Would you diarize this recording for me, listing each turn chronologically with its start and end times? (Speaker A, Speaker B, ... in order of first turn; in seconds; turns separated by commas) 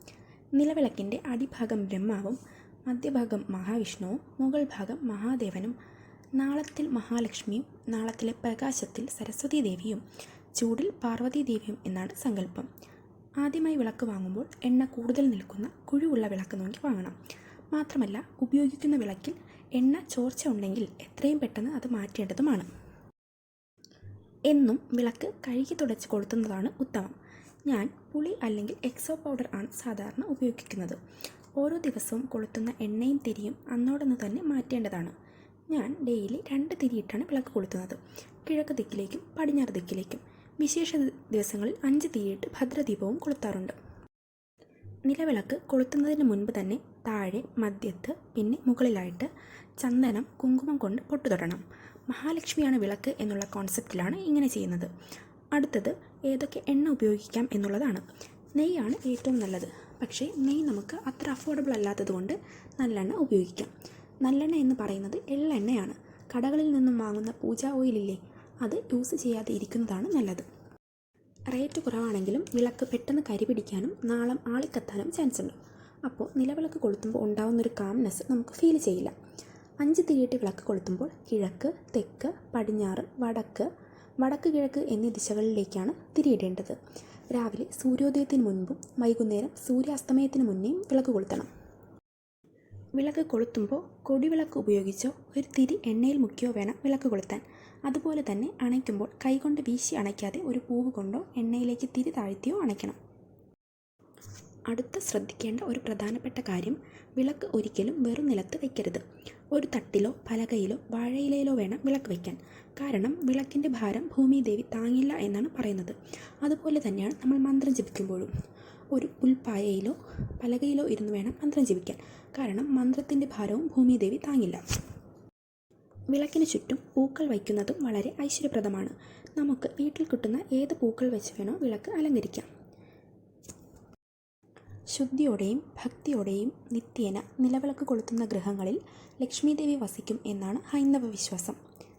Speaker A: 0.6-5.8, Speaker A: 6.4-10.0, Speaker A: 10.6-12.7, Speaker A: 13.4-17.2, Speaker A: 17.7-22.7, Speaker A: 24.5-27.1, Speaker A: 27.7-31.0, Speaker A: 31.6-35.1, Speaker A: 35.7-43.8, Speaker A: 45.1-54.9, Speaker A: 55.5-63.7, Speaker A: 64.2-70.5, Speaker A: 71.5-79.1, Speaker A: 79.8-83.7, Speaker A: 84.2-86.8, Speaker A: 87.3-91.5, Speaker A: 93.0-103.0, Speaker A: 104.7-118.3, Speaker A: 118.9-124.6, Speaker A: 126.1-132.5, Speaker A: 134.9-141.6